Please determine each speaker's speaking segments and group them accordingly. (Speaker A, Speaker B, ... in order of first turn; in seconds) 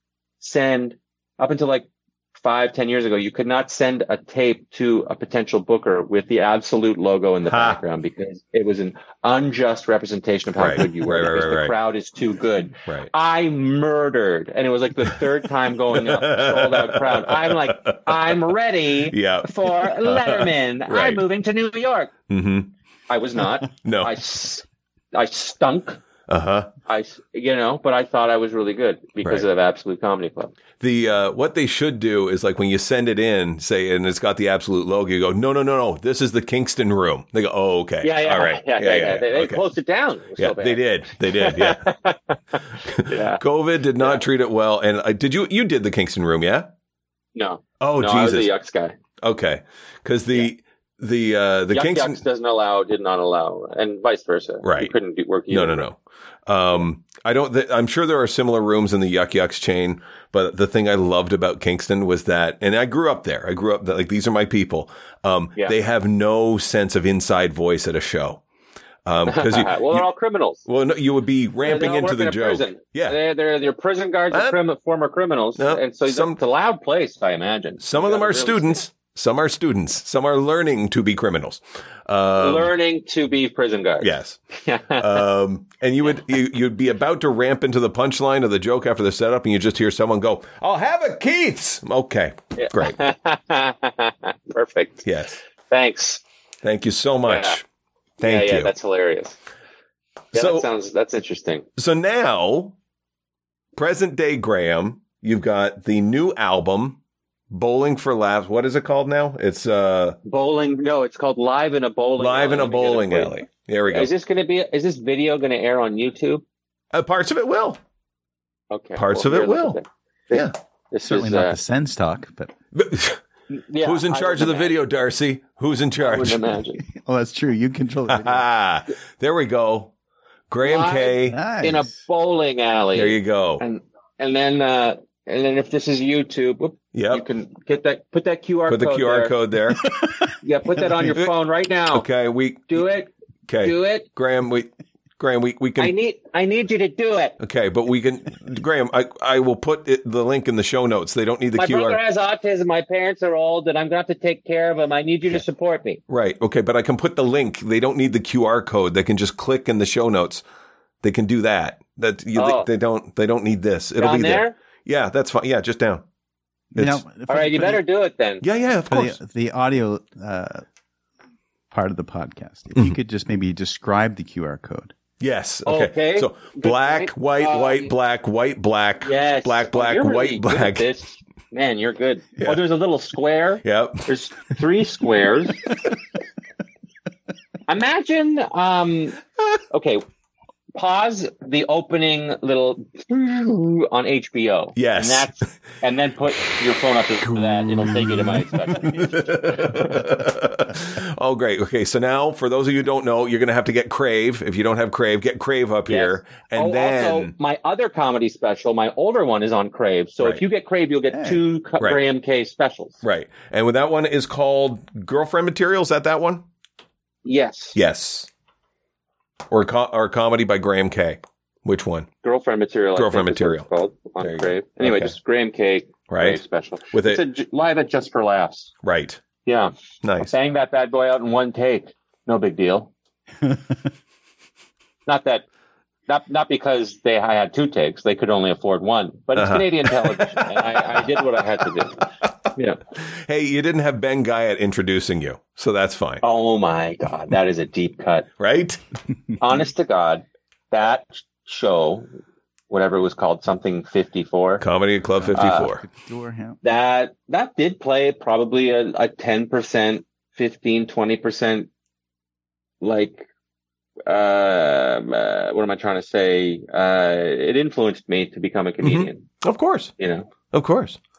Speaker A: 0.4-22.1, 23.1-26.0, 26.9-30.5, 38.0-43.4, 47.3-49.0, 51.7-55.9, 69.3-70.7, 71.6-78.8, 82.4-85.2, 92.6-95.0, 95.7-96.2, 97.3-97.6, 98.2-99.4, 100.3-101.7, 110.2-113.3, 113.9-116.4, 118.7-121.5, 123.5-124.7, 126.0-126.8, 130.6-139.3, 140.4-142.1, 142.7-144.1, 145.8-147.3, 151.5-156.0, 162.3-162.7, 164.0-164.6, 167.3-168.4, 175.7-177.9, 179.0-185.6, 187.7-189.2, 189.7-190.0, 190.7-200.0, 205.9-213.0, 217.2-217.8, 222.2-228.7, 229.4-229.7, 230.2-232.9, 235.1-235.4, 236.1-242.8, 246.2-248.3, 249.4-252.1, 252.7-254.6, 255.3-255.7, 256.6-261.7, 262.8-263.3, 264.1-269.3, 270.0-270.3
Speaker B: 7.5-7.8, 10.6-11.7, 15.9-18.4, 19.1-21.2, 22.3-22.7, 23.8-24.1, 26.3-26.7, 30.8-39.6, 40.4-41.9, 42.9-46.7, 47.8-48.5, 49.2-52.2, 54.6-54.9, 55.5-68.4, 69.0-70.1, 70.6-73.2, 74.3-74.6, 75.6-76.4, 77.8-82.7, 84.0-84.4, 85.0-93.0, 95.0-95.4, 96.6-97.6, 98.2-98.7, 100.3-100.7, 101.8-102.7, 103.8-107.0, 107.5-110.2, 112.2-114.1, 116.9-117.8, 119.0-119.8, 122.7-123.2, 123.8-126.4, 128.2-129.9, 130.5-131.4, 132.9-133.6, 136.9-137.2, 138.7-140.1, 141.9-142.8, 143.5-145.9, 147.4-152.0, 156.1-160.4, 161.0-166.0, 166.7-167.0, 168.4-169.2, 175.2-180.9, 183.6-184.1, 194.8-195.5, 197.3-207.3, 213.0-216.4, 217.8-218.3, 219.5-222.1, 222.9-223.7, 224.2-225.1, 226.1-226.4, 226.9-227.2, 228.8-229.2, 230.0-230.3, 239.3-241.2, 242.9-246.2, 248.4-248.8, 254.6-255.8, 268.8-269.9, 270.5-271.0
Speaker C: 121.0-122.5, 126.9-128.4, 131.3-131.9, 166.8-167.8, 168.9-170.6, 171.7-174.9, 211.1-211.4, 255.2-256.6